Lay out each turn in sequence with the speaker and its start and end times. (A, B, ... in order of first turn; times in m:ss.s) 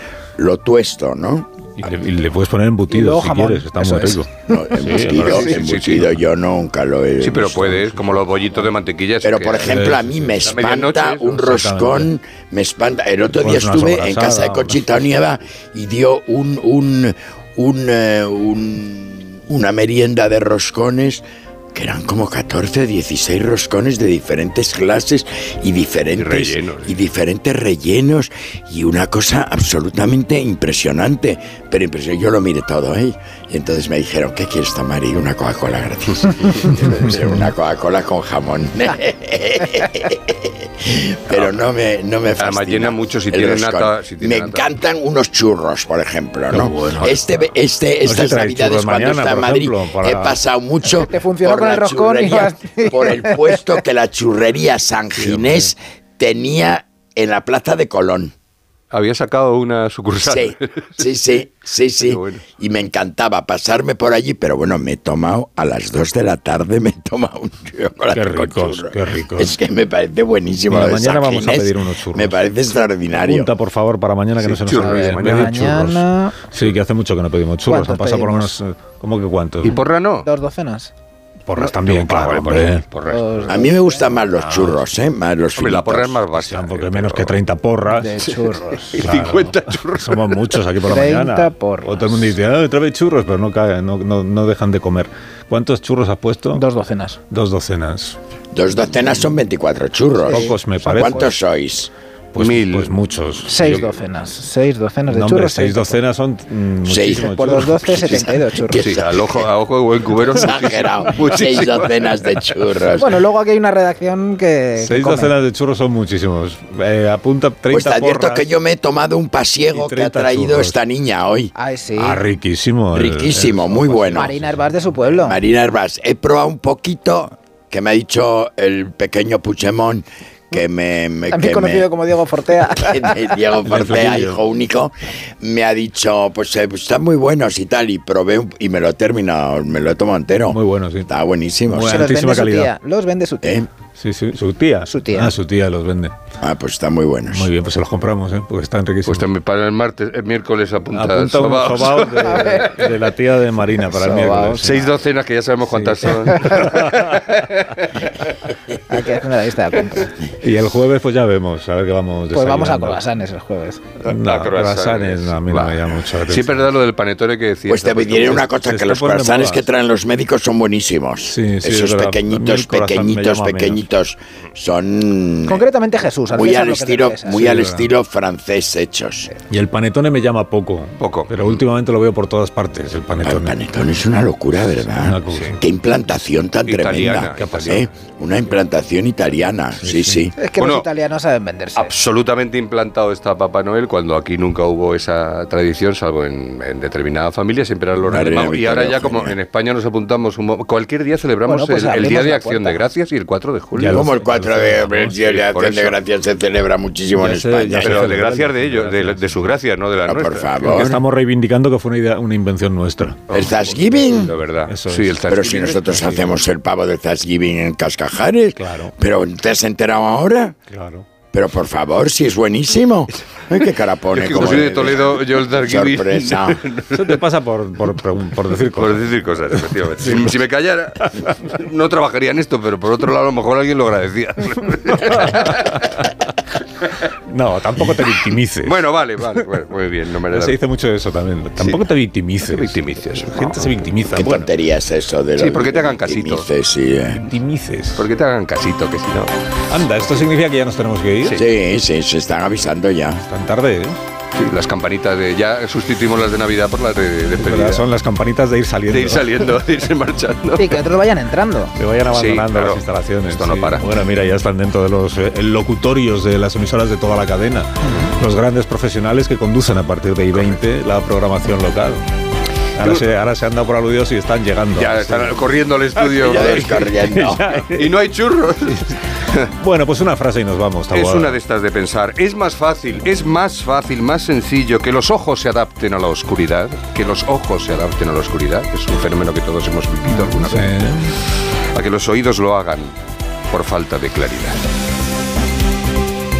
0:00.4-0:01.5 A
0:01.8-0:05.6 B
0:02.9-0:04.6 C
0:04.5-0:08.0 A
0:05.1-0:06.2 D
0:07.2-0:11.5 D
0:09.2-0:58.3 A
0:09.6-0:10.4 B
0:11.4-0:12.1 B
0:13.3-0:15.1 B
0:26.2-0:27.0 D
0:41.3-0:41.6 D
0:42.4-0:44.7 D
0:46.5-0:47.3 B
0:48.0-0:50.4 B
0:50.8-0:53.6 C
0:58.9-1:01.1 D
1:00.2-1:13.5 A
1:02.0-1:02.4 D
1:08.1-1:09.6 B
1:10.7-1:12.5 B
1:13.1-1:19.8 B
1:14.4-1:15.9 D
1:14.8-1:16.4 C
1:17.6-1:18.5 C
1:19.6-1:20.3 D
1:20.2-1:20.9 C
1:21.5-1:22.9 B
1:21.6-1:23.5 D
1:23.1-1:24.3 C
1:23.5-1:26.2 A
1:24.4-1:24.8 B
1:25.6-1:27.4 D
1:26.3-1:28.4 B
1:27.9-1:29.1 C
1:28.2-1:30.6 D
1:29.0-1:36.6 B
1:30.8-1:32.3 C
1:36.5-1:37.2 C
1:37.3-1:38.2 B
1:38.5-1:41.9 A
1:40.3-1:41.3 C
1:40.3-1:41.3 B
1:42.3-1:43.9 B
1:42.4-1:43.0 D
1:43.5-1:46.0 C
1:43.6-1:43.9 D
1:45.1-1:48.3 B
1:46.8-1:49.5 A
1:47.2-1:48.9 C
1:48.7-1:52.2 D
1:50.3-1:53.2 A
1:52.9-1:55.4 C
1:54.8-1:58.5 B
1:57.7-2:01.5 A
1:59.7-2:00.8 B
2:01.6-2:02.3 C
2:02.0-2:05.0 B
2:02.9-2:04.3 A
2:04.1-2:05.4 C
2:05.2-2:11.9 A
2:11.3-2:13.3 C
2:12.8-2:22.1 A
2:13.6-2:14.4 B
2:20.5-2:21.1 B
2:21.7-2:22.7 B
2:21.8-2:23.6 C
2:23.4-2:23.7 A
2:24.0-2:26.2 B
2:24.8-2:25.4 C
2:26.4-2:27.5 A
2:27.3-2:29.3 B
2:29.0-2:32.7 D
2:30.9-2:34.8 B
2:32.2-2:32.8 C
2:33.8-2:34.8 C
2:34.6-2:38.0 D
2:35.7-2:37.1 B
2:38.9-2:40.1 C
2:40.4-2:43.0 B
2:42.3-2:43.8 C
2:44.0-2:46.7 B
2:44.0-2:48.6 D
2:47.7-2:55.6 A
2:48.6-2:49.7 B
2:51.3-2:53.9 B
2:55.5-2:57.6 C
2:56.3-2:59.3 A
2:57.3-2:57.9 B
2:59.5-3:03.6 B
3:01.0-3:01.6 D
3:03.2-3:10.4 A
3:04.9-3:05.6 B
3:05.3-3:05.6 D
3:06.6-3:07.9 D
3:06.9-3:07.9 B
3:09.8-3:10.3 B
3:10.4-3:11.9 C
3:10.6-3:10.9 D
3:11.8-3:24.0 D
3:18.1-3:19.4 A
3:21.4-3:22.8 C
3:23.8-3:25.2 B
3:23.9-3:28.2 A
3:25.1-3:26.0 D
3:27.2-3:29.5 B
3:27.8-3:30.9 D
3:30.0-3:31.0 A
3:30.6-3:33.3 B
3:33.3-3:36.4 D
3:33.3-3:34.3 A
3:34.7-3:35.3 B
3:35.3-3:40.6 A
3:35.8-3:36.4 B
3:38.6-3:38.9 B
3:40.7-3:41.1 B
3:41.3-3:46.6 A
3:43.5-3:47.2 D
3:46.9-3:49.2 B
3:48.7-3:55.9 D
3:50.0-3:50.4 B
3:55.3-3:55.7 B
3:57.3-3:58.8 B
3:58.6-4:00.6 D
4:00.3-4:04.5 B
4:01.6-4:01.9 D
4:02.4-4:03.8 D
4:04.1-4:07.2 A
4:05.4-4:06.5 D
4:07.2-4:08.0 B
4:07.9-4:09.4 D
4:09.7-4:11.4 B
4:11.2-4:11.5 D
4:11.4-4:13.2 A
4:13.2-4:14.0 B
4:14.4-4:17.9 D
4:17.4-4:19.4 B
4:18.9-4:20.8 D
4:20.6-4:21.8 C
4:21.8-4:32.1 B
4:22.1-4:23.9 D
4:30.3-4:30.6 D
4:32.8-4:35.4 B
4:34.8-4:36.9 D
4:36.0-4:38.0 B
4:36.2-4:37.6 A
4:37.6-4:39.5 D
4:38.7-4:39.0 B
4:39.6-4:41.4 B
4:40.9-4:51.0 D
4:50.2-4:51.2 B
4:51.7-4:53.0 D
4:53.5-4:54.6 D